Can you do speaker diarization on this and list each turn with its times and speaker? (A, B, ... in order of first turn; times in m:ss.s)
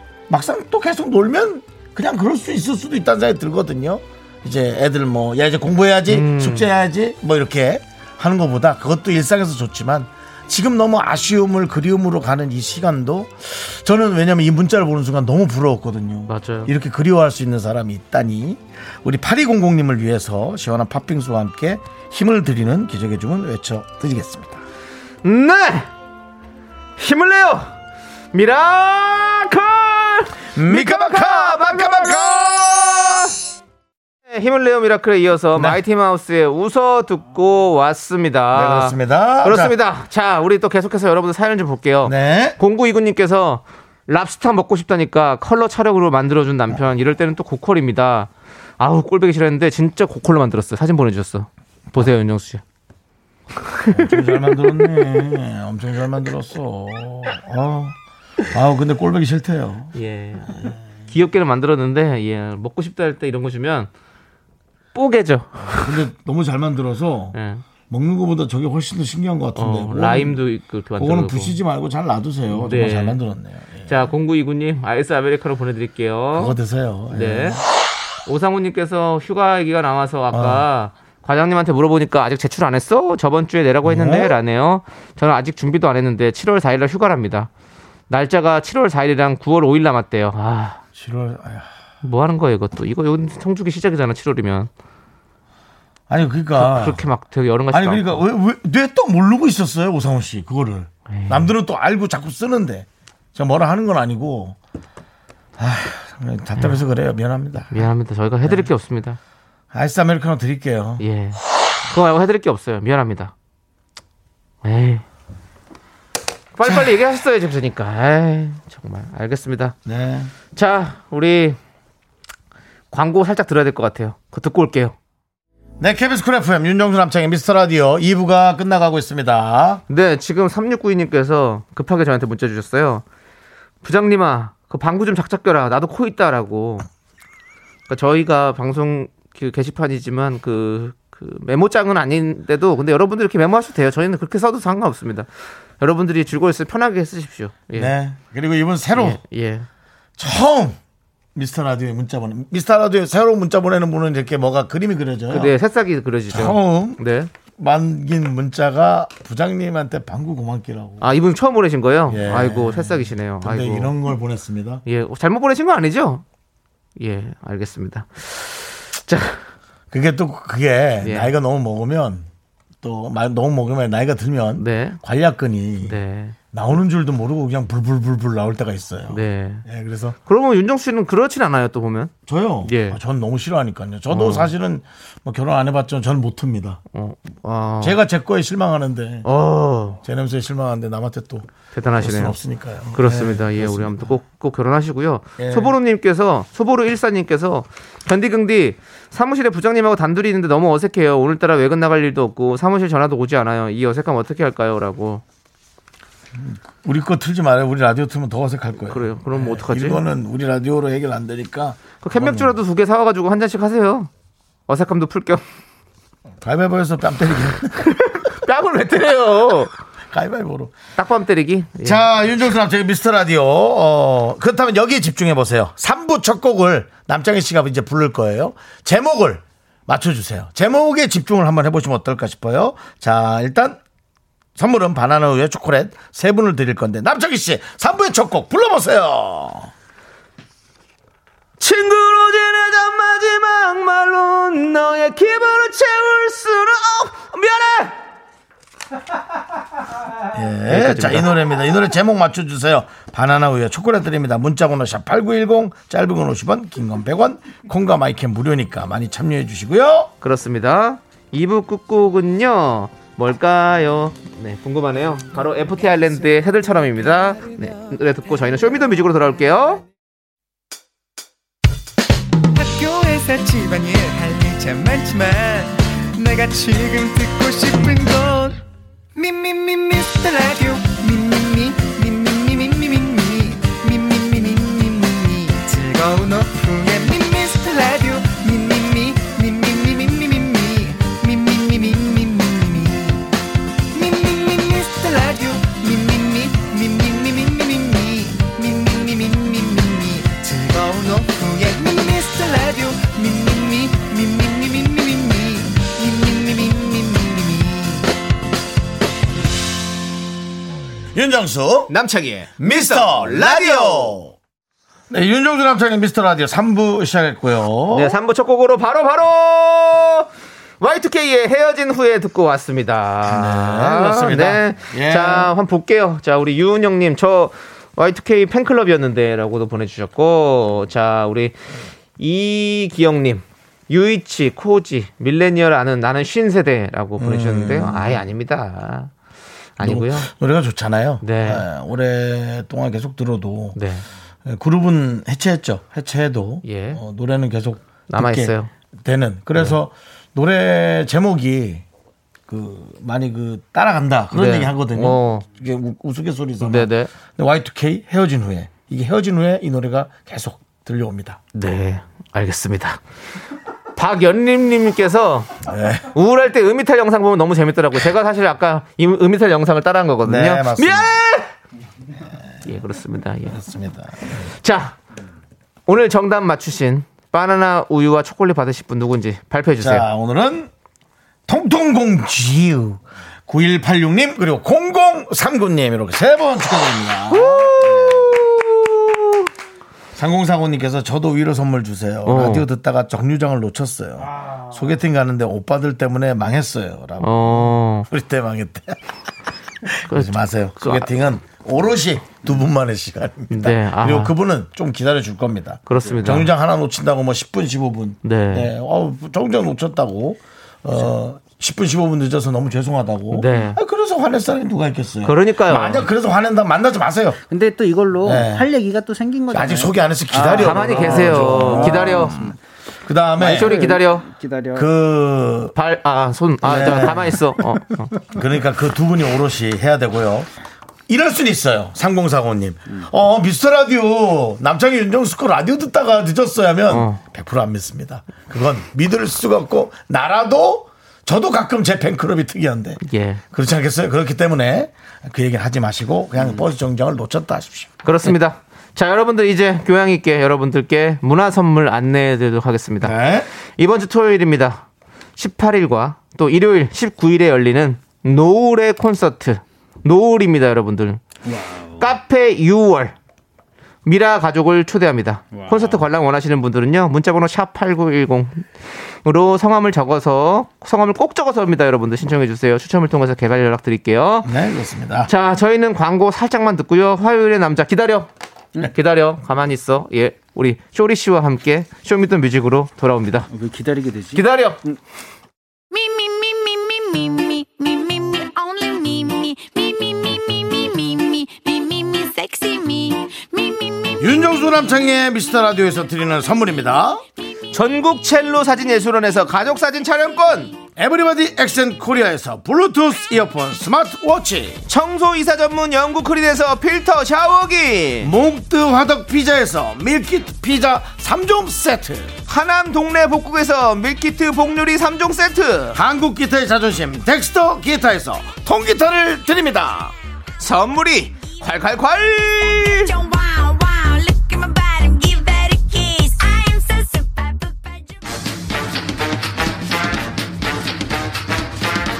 0:00.3-0:24.6 A
0:06.1-0:06.7 B
0:16.3-0:16.7 B
0:25.2-0:25.9 B
0:27.0-0:27.7 B
0:28.3-0:33.2 B
0:30.5-0:33.3 A
0:34.3-0:52.6 B
0:38.5-0:39.7 A
0:42.0-0:42.6 A
0:53.7-0:54.6 B
0:53.9-0:58.0 A
0:58.5-0:59.9 A
0:59.9-1:03.9 B
1:04.9-1:06.0 B
1:05.6-1:07.4 A
1:07.3-1:07.6 B
1:07.9-1:10.4 A
1:09.6-1:11.6 B
1:11.0-1:14.1 A
1:12.5-1:13.2 B
1:13.9-1:16.5 B
1:16.3-1:17.6 A
1:17.1-1:17.6 B
1:18.2-1:27.5 B
1:20.3-1:20.6 A
1:23.8-1:24.4 A
1:28.1-1:30.8 B
1:31.0-1:31.7 A
1:32.0-1:34.7 B
1:36.1-1:37.0 A
1:36.6-1:38.2 B
1:37.7-1:44.6 A
1:41.1-1:41.5 B
1:45.6-1:47.9 A
1:47.7-1:49.2 B
1:48.4-1:48.7 A
1:49.7-1:51.0 A
1:51.0-1:53.3 B
1:54.6-1:55.0 B
1:56.6-1:59.7 B
1:59.8-2:00.3 A
2:00.5-2:01.6 B
2:02.9-2:04.9 B
2:05.8-2:09.8 A
2:09.9-2:13.0 B
2:13.8-2:16.8 B
2:17.9-2:25.3 B
2:25.8-2:27.9 B
2:27.7-2:29.2 A
2:29.0-2:29.7 B
2:30.2-2:30.8 A
2:31.3-2:35.5 A
2:35.3-2:37.3 B
2:36.3-2:37.0 A
2:37.5-2:41.1 A
2:41.0-2:43.9 B
2:42.1-2:44.8 A
2:44.8-2:46.2 B
2:47.0-2:49.4 B
2:49.9-2:52.3 A
2:51.0-2:51.3 B
2:52.8-2:56.0 A
2:54.6-2:55.0 B
2:55.8-2:56.4 B
2:56.5-3:00.2 A
2:59.1-2:59.6 B
3:00.2-3:02.1 B
3:02.3-3:06.8 A
3:02.6-3:03.0 B
3:04.1-3:04.5 B
3:06.9-3:08.0 B
3:07.8-3:09.2 A
3:09.2-3:10.0 B
3:10.0-3:14.2 A
3:11.7-3:12.4 B
3:12.9-3:25.2 B
3:15.4-3:15.7 A
3:26.3-3:32.6 A
3:28.9-3:30.0 B
3:32.0-3:34.1 B
3:34.7-3:35.4 B
3:36.4-3:38.1 A
3:37.8-3:39.7 B
3:40.1-3:40.8 A
3:41.0-3:42.0 B
3:41.8-3:53.8 A
3:54.6-3:59.7 A
4:01.6-4:07.9 B
4:10.3-4:20.1 A
4:10.7-4:11.4 B
4:20.2-4:29.8 B
4:32.6-4:38.6 C
4:39.2-4:53.1 C
4:53.9-5:08.0 C
5:11.1-5:11.9 A
5:11.9-5:14.2 B
5:12.6-5:14.3 A
5:15.1-5:18.1 A
5:17.9-5:20.3 B
5:20.8-5:31.6 B
5:23.2-5:25.5 A
5:32.2-5:39.1 B
5:37.2-5:38.2 A
5:39.8-5:40.3 B
5:39.8-5:43.8 A
5:41.2-5:41.6 B
5:43.8-5:44.0 B
5:44.4-5:51.8 A
5:46.6-5:47.0 B
5:48.1-5:48.7 B
5:52.5-6:01.4 A
5:54.3-5:55.4 B
5:56.6-5:57.1 B
6:01.5-6:03.0 B
6:04.0-6:05.5 B
6:05.6-6:06.1 A
6:06.1-6:11.5 B
6:10.2-6:11.1 A
6:12.6-6:13.6 B
6:13.5-6:14.4 A
6:14.6-6:15.0 B
6:15.9-6:20.1 B
6:19.8-6:20.7 A
6:21.5-6:28.4 A
6:27.3-6:29.2 B
6:30.1-6:39.0 A
6:32.2-6:32.6 B
6:34.3-6:34.6 D
6:37.2-6:38.1 B
6:39.8-6:57.4 A
6:40.1-6:41.1 B
6:43.5-6:44.3 B
6:45.9-6:46.5 B
6:48.2-6:48.7 B
6:53.3-6:53.8 B
6:55.2-6:56.1 B
6:57.5-7:02.6 D
6:58.2-6:58.7 A
6:59.5-7:03.8 A
7:00.5-7:02.4 B
7:03.4-7:04.3 B
7:03.4-7:04.9 D
7:04.8-7:05.7 A
7:05.7-7:08.1 B
7:06.6-7:07.4 A
7:08.3-7:10.5 A
7:11.1-7:23.0 A
7:16.9-7:17.2 B
7:23.0-7:23.4 B
7:23.5-7:27.9 A
7:28.0-7:33.1 B
7:33.0-7:33.5 A
7:33.8-7:34.8 B
7:35.4-7:41.2 B
7:41.4-7:42.0 D
7:42.0-7:43.1 B
7:44.0-7:48.7 B
7:45.5-7:46.0 D
7:49.2-7:54.5 B
7:54.4-7:55.3 A
7:55.3-8:03.5 B
8:03.5-8:05.0 D
8:04.3-8:04.8 B
8:05.9-8:14.6 E
8:14.2-8:17.2 A
8:17.7-8:20.8 B
8:21.0-8:24.8 A
8:24.9-8:28.3 B
8:28.2-8:32.3 A
8:32.5-8:36.0 B
8:35.9-8:40.1 A
8:40.6-8:43.1 B
8:42.6-8:48.2 E